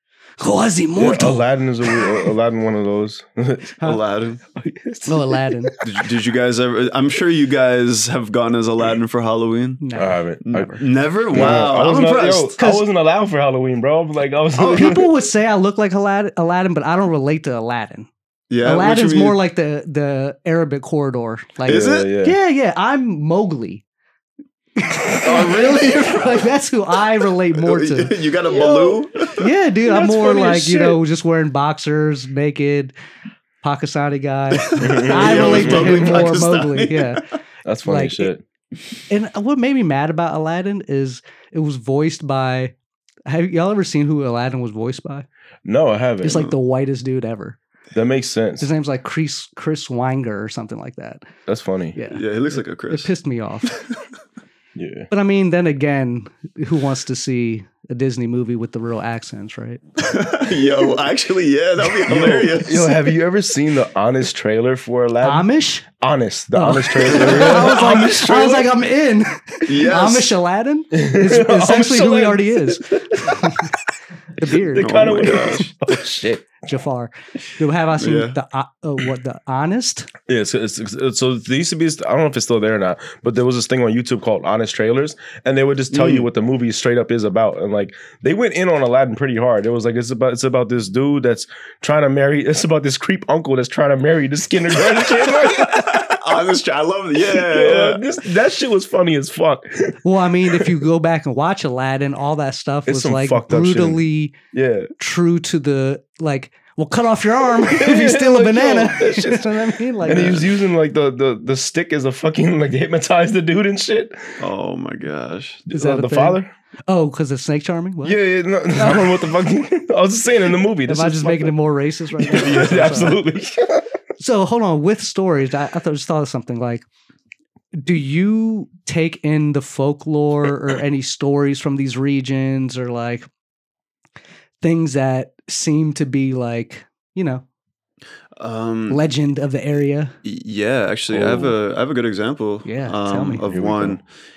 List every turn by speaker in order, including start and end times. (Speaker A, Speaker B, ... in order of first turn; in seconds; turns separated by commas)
Speaker A: 0.4-2.3, Speaker B: 1.0-3.8, Speaker C: 3.8-4.4, Speaker B: 4.5-6.1, Speaker A: 5.1-5.8, Speaker C: 5.8-9.8, Speaker A: 9.8-10.8, Speaker B: 10.0-10.7, Speaker C: 10.4-12.6, Speaker B: 11.3-15.1, Speaker A: 12.6-12.8, Speaker A: 14.6-18.1, Speaker C: 18.5-19.4, Speaker A: 18.6-23.8, Speaker C: 21.6-22.1, Speaker B: 21.7-22.4, Speaker A: 24.8-28.7, Speaker C: 25.2-26.5, Speaker C: 27.5-29.5, Speaker B: 28.5-29.0, Speaker A: 29.4-32.9, Speaker B: 29.9-31.0, Speaker A: 33.6-37.2, Speaker C: 34.6-37.3, Speaker B: 34.8-36.2, Speaker B: 37.6-38.4, Speaker A: 37.8-38.3, Speaker A: 39.1-42.7, Speaker A: 43.3-45.3, Speaker B: 45.6-46.5, Speaker A: 46.2-47.6, Speaker B: 47.9-48.7, Speaker A: 48.6-51.3, Speaker B: 51.5-52.0, Speaker A: 52.0-52.2, Speaker C: 52.1-53.1, Speaker A: 52.9-53.8, Speaker B: 54.8-55.1, Speaker A: 55.1-59.8, Speaker C: 60.0-63.0, Speaker B: 62.1-68.7, Speaker A: 65.2-65.9, Speaker A: 66.5-73.8, Speaker C: 67.1-68.1, Speaker C: 69.7-70.4, Speaker B: 70.9-73.7, Speaker A: 74.4-75.7, Speaker B: 74.4-76.5, Speaker C: 74.8-75.7, Speaker A: 76.6-80.1, Speaker C: 78.0-78.4, Speaker B: 80.3-96.1, Speaker C: 85.9-86.3, Speaker C: 94.8-98.1, Speaker B: 97.2-100.0, Speaker A: 100.0-104.3, Speaker B: 102.9-104.0, Speaker B: 104.5-104.9, Speaker A: 105.0-110.5, Speaker B: 107.6-114.4, Speaker C: 114.4-115.7, Speaker B: 115.7-116.5, Speaker A: 115.7-118.2, Speaker B: 118.0-121.6, Speaker A: 118.8-119.1, Speaker A: 120.8-123.2, Speaker B: 122.2-123.9, Speaker A: 124.2-126.8, Speaker A: 127.8-133.3, Speaker A: 134.6-137.4, Speaker C: 138.4-139.0, Speaker A: 138.9-140.1, Speaker C: 140.2-144.0, Speaker B: 141.1-141.6, Speaker A: 142.6-143.4, Speaker B: 143.5-144.0